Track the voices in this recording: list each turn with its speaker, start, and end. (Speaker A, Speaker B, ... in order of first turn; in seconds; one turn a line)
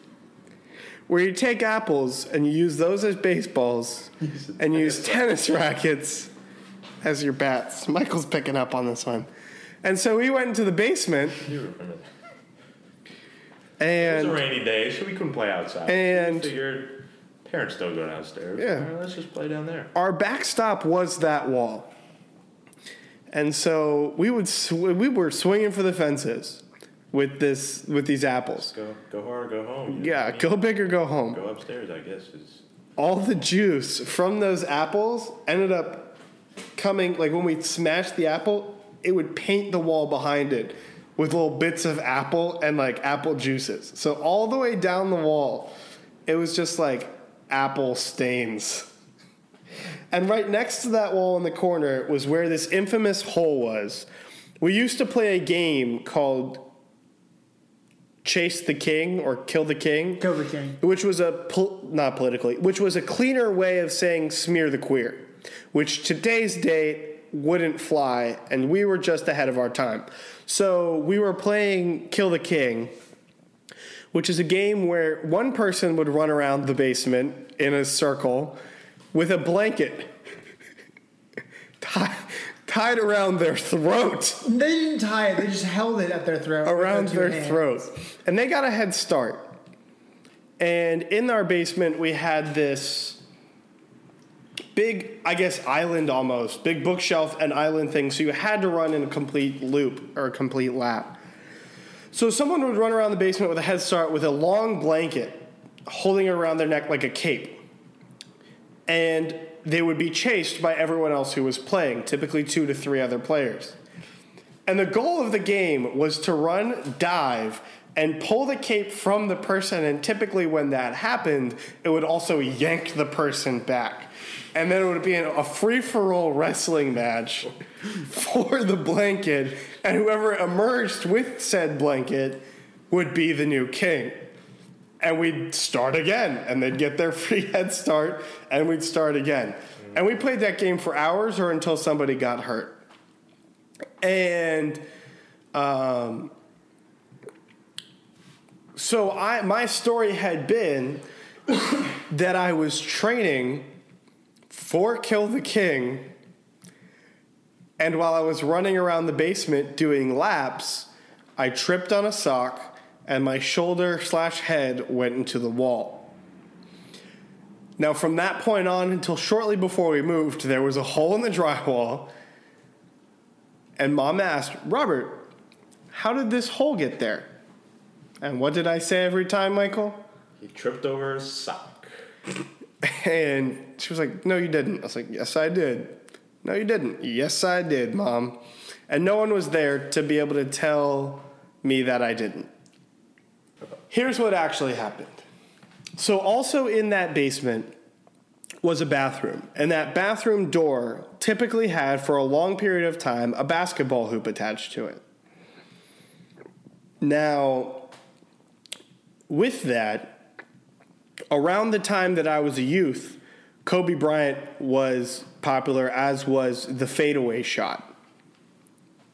Speaker A: 1.1-6.3
Speaker B: 4.2-5.4
Speaker A: 7.0-9.3
Speaker A: 9.8-11.4
Speaker B: 11.4-12.1
Speaker A: 13.8-14.4
Speaker B: 14.0-19.9
Speaker A: 15.9-16.5
Speaker A: 18.6-18.9
Speaker A: 19.9-21.9
Speaker A: 23.3-28.7
Speaker B: 28.6-32.6
Speaker A: 29.9-31.4
Speaker A: 33.0-36.2
Speaker A: 36.8-45.8
Speaker A: 46.3-48.9
Speaker A: 50.1-54.1
Speaker A: 54.6-56.7
Speaker A: 58.2-60.2
Speaker C: 60.2-60.8
Speaker A: 60.8-72.9
Speaker A: 74.1-78.6
Speaker A: 79.1-80.2
Speaker A: 81.8-84.5
Speaker C: 84.5-87.8
Speaker A: 86.6-89.5
Speaker A: 90.6-93.2
Speaker A: 94.8-101.2
Speaker A: 102.1-107.6
Speaker A: 108.9-113.8
Speaker A: 114.7-134.3
Speaker A: 135.0-142.8
Speaker A: 144.0-144.8
Speaker A: 145.5-146.3
Speaker A: 148.8-151.1
Speaker A: 152.1-153.7
Speaker A: 154.5-156.1
Speaker A: 157.8-166.2
Speaker A: 167.8-172.1
Speaker A: 173.8-175.3
Speaker A: 175.9-177.3
Speaker A: 178.2-180.1
Speaker B: 180.4-181.9
Speaker A: 182.8-192.5
Speaker A: 193.9-195.2
Speaker A: 196.0-197.7
Speaker A: 198.6-205.0
Speaker A: 207.0-207.9
Speaker A: 209.3-210.2
Speaker A: 211.3-217.9